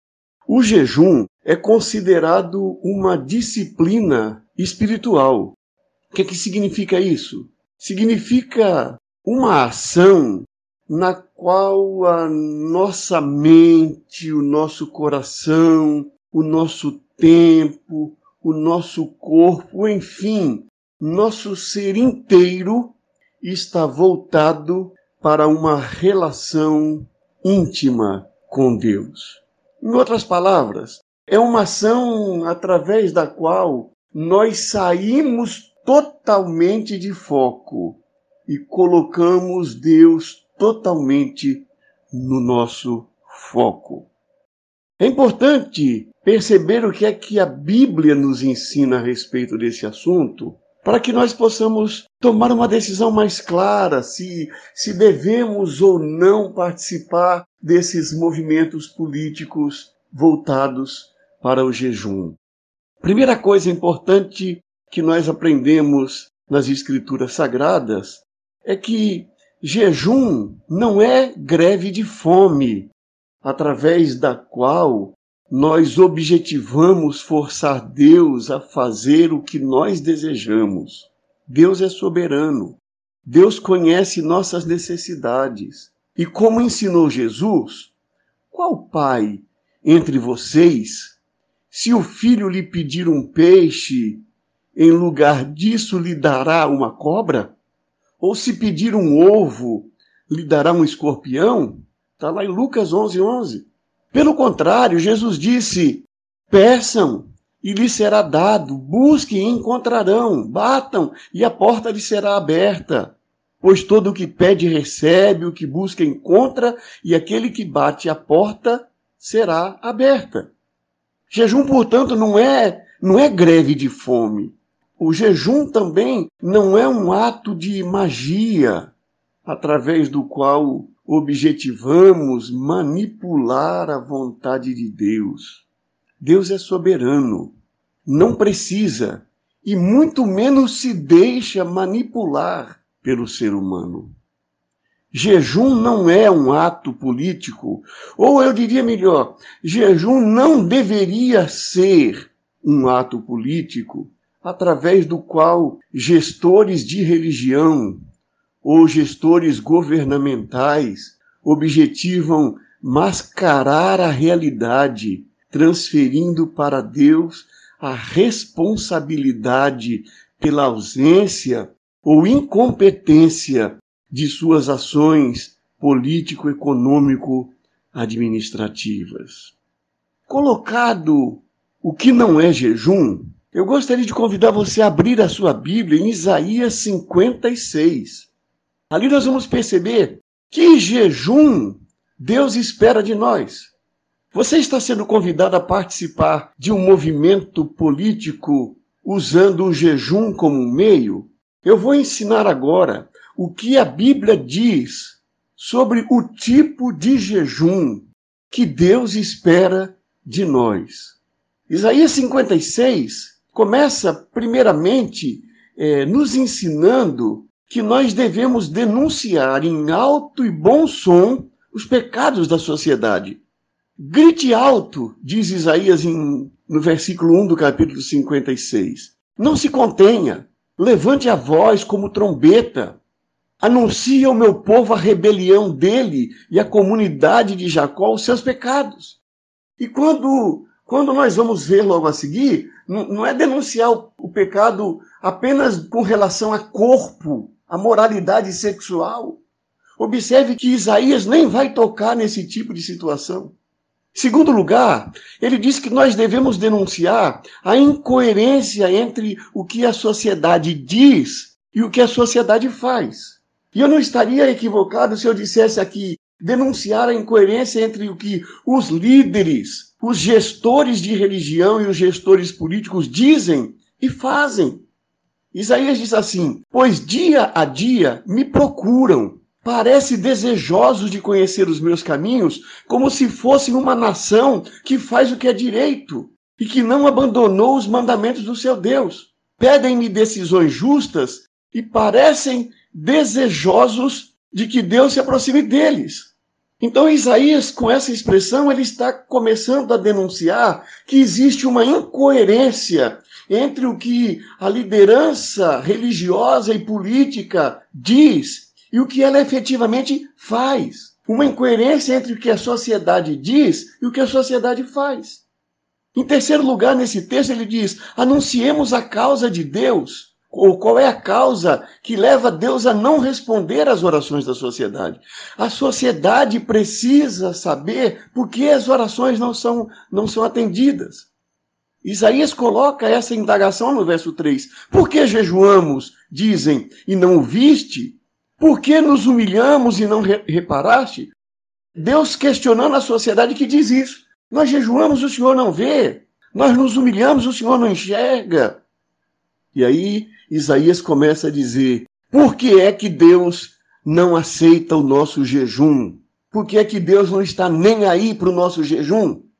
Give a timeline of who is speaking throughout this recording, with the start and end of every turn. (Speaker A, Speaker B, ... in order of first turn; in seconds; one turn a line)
Speaker A: 0.5-5.6
Speaker A: 6.1-44.1
Speaker A: 45.0-62.4
Speaker A: 63.0-87.9
Speaker A: 88.5-91.2
Speaker A: 91.7-94.2
Speaker A: 94.8-97.5
Speaker A: 98.2-120.5
Speaker A: 121.3-128.9
Speaker A: 129.5-135.6
Speaker A: 136.2-137.6
Speaker A: 138.1-144.1
Speaker A: 145.1-158.0
Speaker A: 158.6-179.5
Speaker A: 180.3-188.3
Speaker A: 188.9-193.7
Speaker A: 194.3-211.2
Speaker A: 211.7-223.4
Speaker A: 224.0-233.0
Speaker A: 233.6-239.2
Speaker A: 239.8-249.4
Speaker A: 250.0-253.6
Speaker A: 254.1-274.9
Speaker A: 275.5-315.4
Speaker A: 316.1-331.3
Speaker A: 332.0-341.3
Speaker A: 342.0-348.8
Speaker A: 349.7-359.4